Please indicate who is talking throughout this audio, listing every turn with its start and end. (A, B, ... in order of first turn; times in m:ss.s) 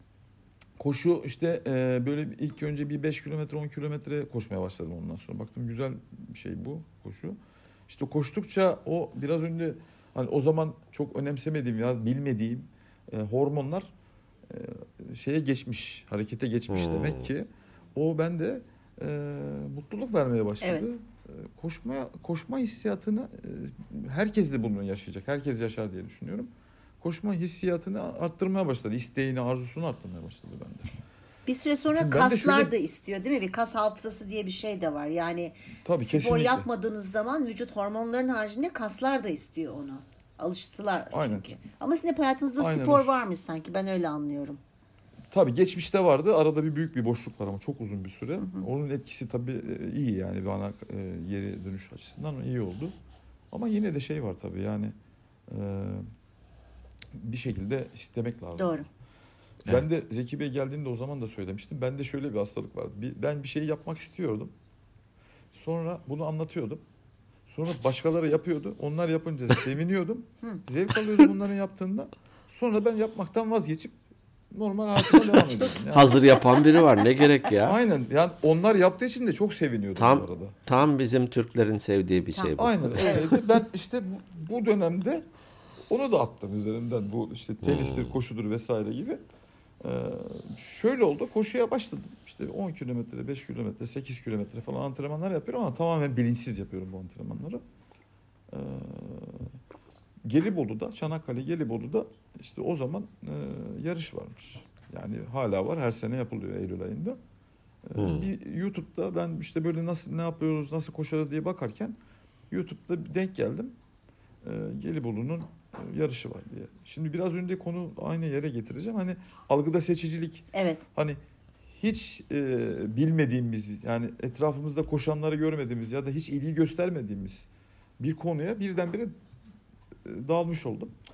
0:00.8-0:07.4 A
0:07.9-0:13.9 A
0:14.5-0:26.5 A
0:16.7-0:17.3 B
0:20.6-0:20.9 C
0:27.0-0:30.9 A
0:31.5-0:44.6 C
0:31.9-0:32.7 A
0:35.8-0:36.7 A
0:41.1-0:41.6 A
0:42.6-0:43.1 A
0:45.3-0:52.9 A
0:48.4-0:48.6 C
0:53.5-0:54.9 A
0:55.5-0:56.1 A
0:57.1-0:58.8 A
0:58.6-0:58.9 C
0:59.6-1:04.5 A
1:05.5-1:06.8 A
1:07.5-1:13.9 A
1:14.5-1:16.3 A
1:15.1-1:17.8 B
1:17.6-1:20.6 A
1:20.0-1:23.4 B
1:22.4-1:23.3 C
1:22.6-1:25.2 A
1:25.9-1:29.2 A
1:27.6-1:28.2 B
1:29.8-1:37.6 A
1:38.5-1:39.5 A
1:40.2-1:47.2 A
1:47.9-1:52.0 A
1:48.0-1:48.3 B
1:52.5-1:53.7 A
1:54.4-2:01.2 A
2:00.5-2:00.8 C
2:01.8-2:07.5 A
2:08.0-2:09.2 A
2:10.0-2:10.9 A